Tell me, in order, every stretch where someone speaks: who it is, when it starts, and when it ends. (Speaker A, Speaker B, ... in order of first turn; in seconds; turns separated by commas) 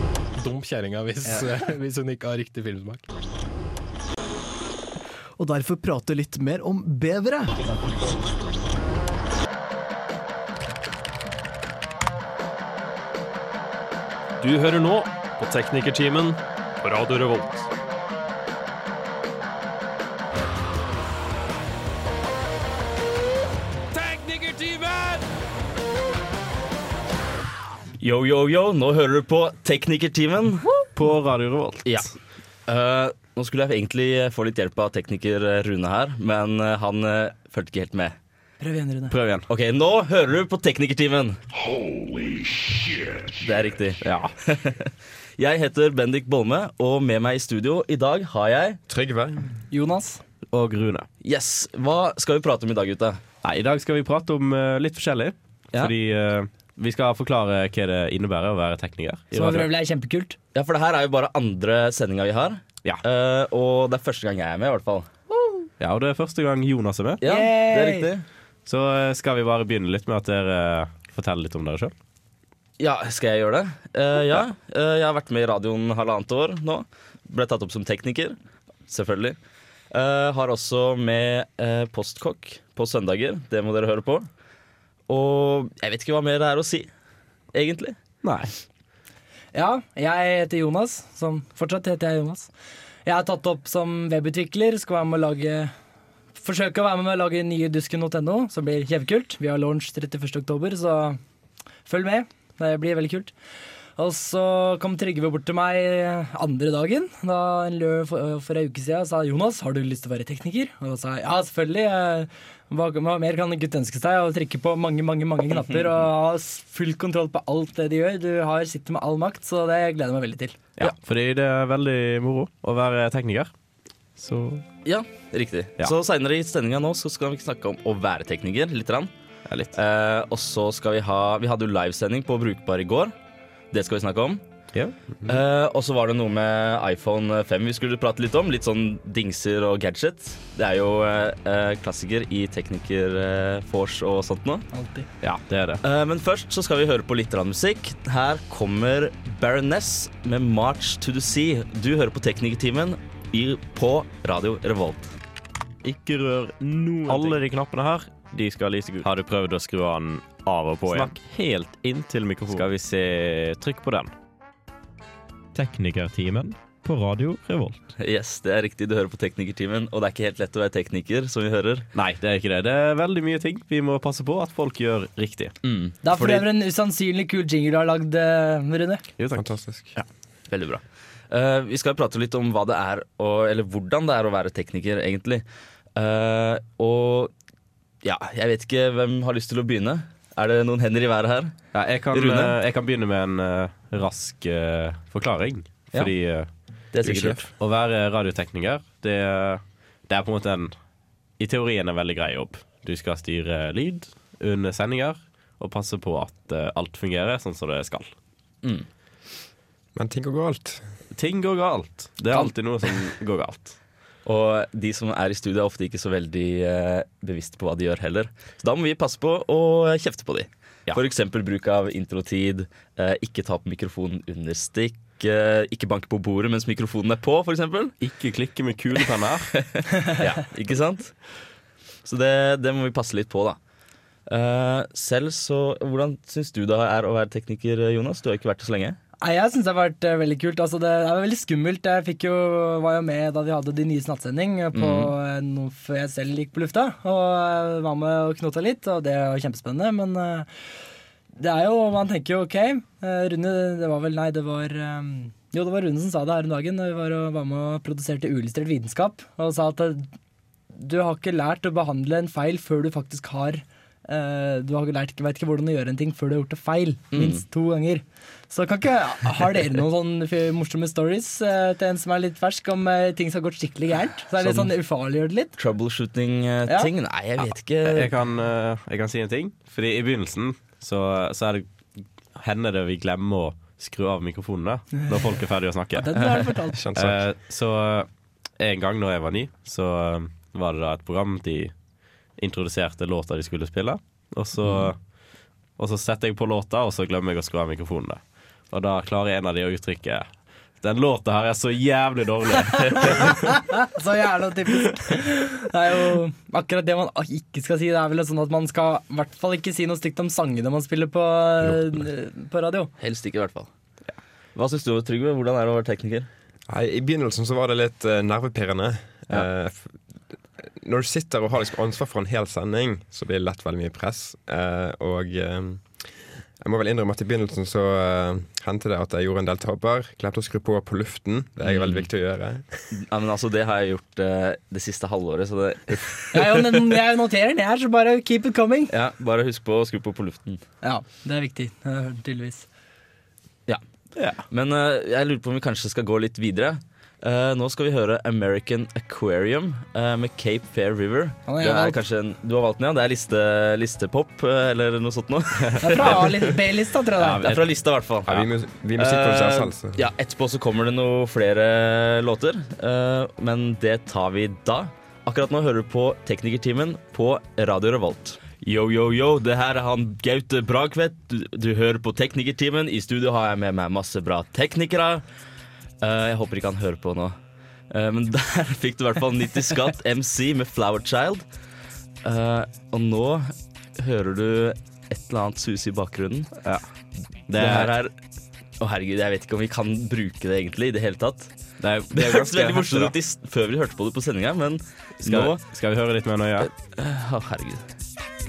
Speaker A: 0.4-3.0, Speaker B: 5.4-7.5, Speaker C: 14.4-17.7, Speaker C: 23.9-25.2, Speaker D: 28.0-30.7, Speaker E: 30.9-32.1, Speaker D: 31.8-32.1, Speaker D: 32.7-38.1, Speaker F: 38.6-39.1, Speaker E: 39.1-39.5, Speaker D: 39.5-41.4, Speaker D: 43.4-48.8, Speaker E: 44.0-44.3, Speaker G: 48.9-49.5, Speaker F: 49.7-50.2, Speaker E: 50.5-51.1, Speaker D: 51.2-53.2, Speaker E: 53.4-59.7, Speaker F: 59.3-60.4, Speaker D: 60.5-65.1, Speaker F: 65.3-65.7, Speaker E: 65.8-67.2, Speaker D: 67.2-68.2, Speaker F: 67.2-68.1, Speaker E: 68.7-71.9, Speaker D: 72.8-78.4, Speaker D: 78.9-79.3, Speaker D: 79.9-84.3, Speaker D: 85.1-86.9, Speaker D: 87.5-88.0, Speaker E: 88.2-88.5, Speaker F: 89.5-92.5, Speaker F: 93.0-95.7, Speaker F: 96.4-101.2, Speaker F: 101.8-103.3, Speaker F: 104.0-120.6, Speaker E: 120.8-123.5, Speaker E: 124.2-124.6, Speaker D: 124.8-129.1, Speaker D: 129.7-133.1, Speaker D: 133.7-134.4, Speaker D: 135.2-144.7, Speaker F: 144.7-145.1, Speaker E: 145.2-145.8, Speaker D: 145.8-155.1, Speaker E: 155.8-164.1, Speaker D: 157.1-157.4, Speaker D: 160.8-161.1, Speaker E: 165.5-167.8, Speaker D: 168.0-171.8, Speaker E: 171.9-175.5, Speaker D: 175.6-176.4, Speaker F: 176.0-179.0, Speaker E: 179.2-180.0, Speaker G: 179.3-179.9, Speaker D: 180.5-185.4, Speaker D: 185.9-187.3, Speaker D: 188.0-191.5, Speaker E: 191.7-196.5, Speaker D: 192.1-192.5, Speaker D: 196.9-197.5, Speaker G: 197.0-197.4, Speaker E: 197.6-200.7, Speaker E: 201.4-208.1, Speaker G: 209.9-210.8, Speaker E: 211.1-213.8, Speaker D: 214.2-227.9, Speaker E: 228.0-229.5, Speaker D: 229.5-231.2, Speaker D: 232.0-233.6, Speaker D: 234.3-239.0, Speaker F: 239.2-250.5, Speaker D: 244.7-245.1, Speaker F: 251.3-260.1, Speaker F: 260.7-275.5, Speaker D: 267.1-267.4, Speaker D: 274.4-274.7, Speaker D: 275.6-278.1, Speaker E: 277.9-281.7, Speaker E: 282.3-288.1, Speaker F: 285.9-286.8, Speaker G: 286.7-287.2, Speaker E: 288.6-291.7, Speaker E: 292.4-295.0, Speaker D: 294.6-294.9, Speaker E: 295.8-298.2, Speaker E: 298.7-300.3, Speaker E: 300.8-303.5, Speaker F: 303.0-312.9, Speaker D: 313.0-313.7, Speaker D: 314.5-316.3, Speaker G: 316.7-320.0, Speaker G: 320.6-332.9, Speaker D: 331.6-332.1, Speaker D: 332.9-336.8, Speaker F: 336.3-338.9, Speaker D: 338.9-340.6, Speaker F: 340.8-342.7, Speaker E: 344.2-344.4, Speaker D: 344.5-356.6, Speaker F: 351.5-352.0, Speaker F: 355.8-357.5, Speaker E: 355.9-356.2, Speaker D: 357.2-375.2, Speaker E: 357.4-357.6, Speaker G: 358.3-360.0, Speaker D: 376.0-377.4, Speaker D: 377.9-381.4, Speaker D: 382.2-386.5, Speaker E: 387.5-387.9, Speaker D: 387.5-388.1, Speaker D: 388.8-391.5, Speaker E: 391.8-393.1, Speaker D: 392.1-395.6, Speaker E: 395.2-396.7, Speaker D: 396.6-397.8